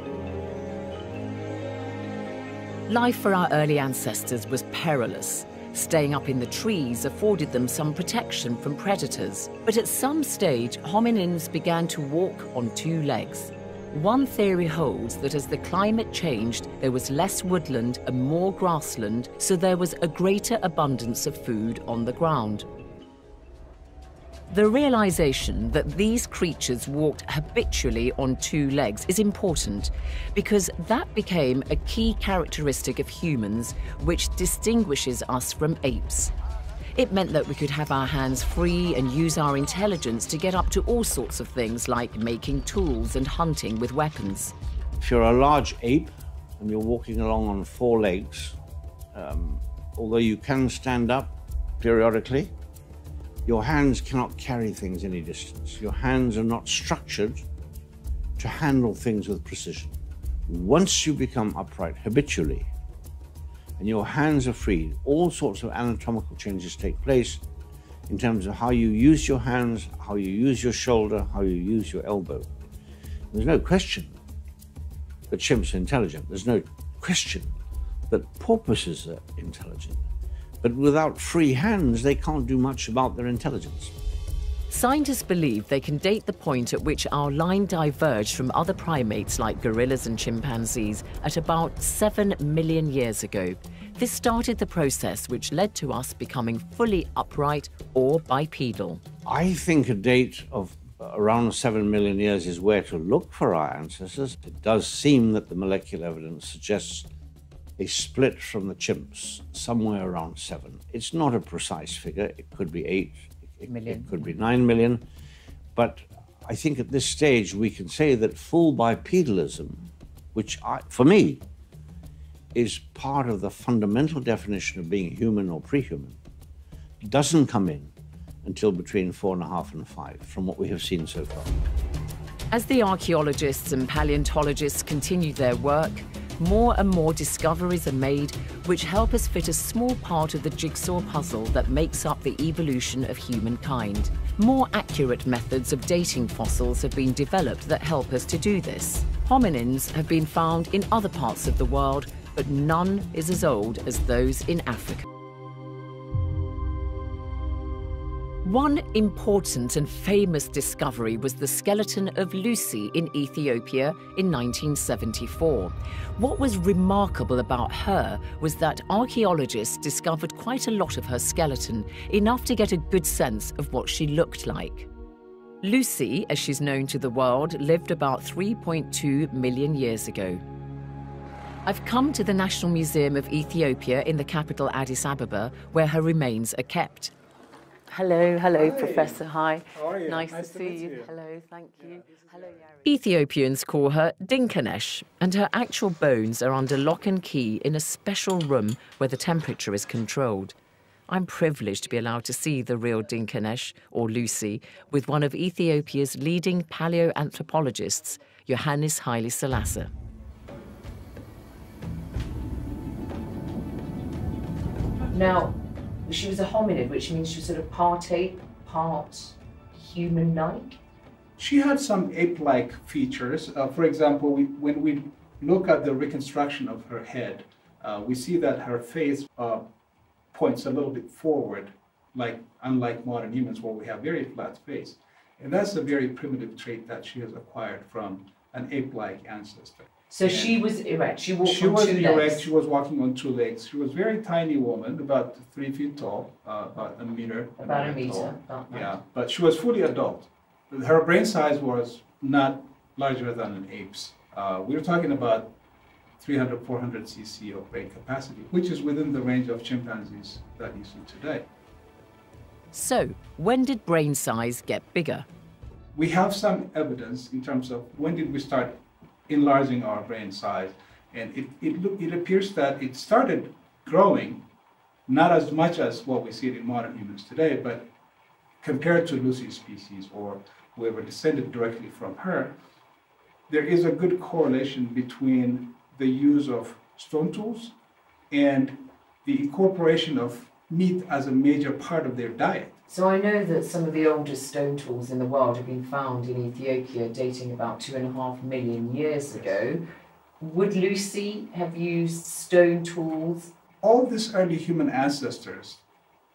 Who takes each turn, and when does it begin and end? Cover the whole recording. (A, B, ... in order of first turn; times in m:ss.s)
0:02.9-0:22.7 A
0:24.5-0:36.3 A
0:37.0-0:44.5 A
0:45.0-0:48.6 B
0:49.1-0:52.5 B
0:53.5-0:57.4 B
0:58.4-1:02.7 B
1:03.8-1:07.4 B
1:08.1-1:12.5 B
1:13.3-1:14.2 B
1:15.3-1:17.5 B
1:18.1-1:20.0 B
1:20.6-1:23.9 B
1:24.7-1:39.0 A
1:39.3-1:47.1 B
1:47.8-1:55.0 B
1:53.7-1:54.3 A
1:55.8-2:01.4 B
2:02.5-2:06.2 B
2:07.0-2:07.9 B
2:08.4-2:11.5 B
2:12.5-2:35.1 A
2:38.4-2:54.9 A
2:55.6-3:00.4 A
3:01.7-3:07.1 A
3:07.9-3:12.0 A
3:08.6-3:09.2 C
3:09.7-3:11.1 C
3:12.8-3:20.6 A
3:21.1-3:29.9 A
3:35.1-3:40.8 A
3:41.4-3:49.7 C
3:50.3-4:00.6 C
4:00.1-4:02.4 A
4:01.4-4:15.6 C
4:07.6-4:09.0 A
4:16.2-4:21.5 C
4:22.7-4:25.3 A
4:25.9-4:34.5 C
4:35.1-4:37.9 C
4:38.6-4:42.6 C
4:43.5-4:47.8 C
4:48.3-4:52.8 C
4:52.9-4:59.8 A
4:59.3-4:59.6 C
5:00.4-5:03.5 A
5:03.8-5:05.8 C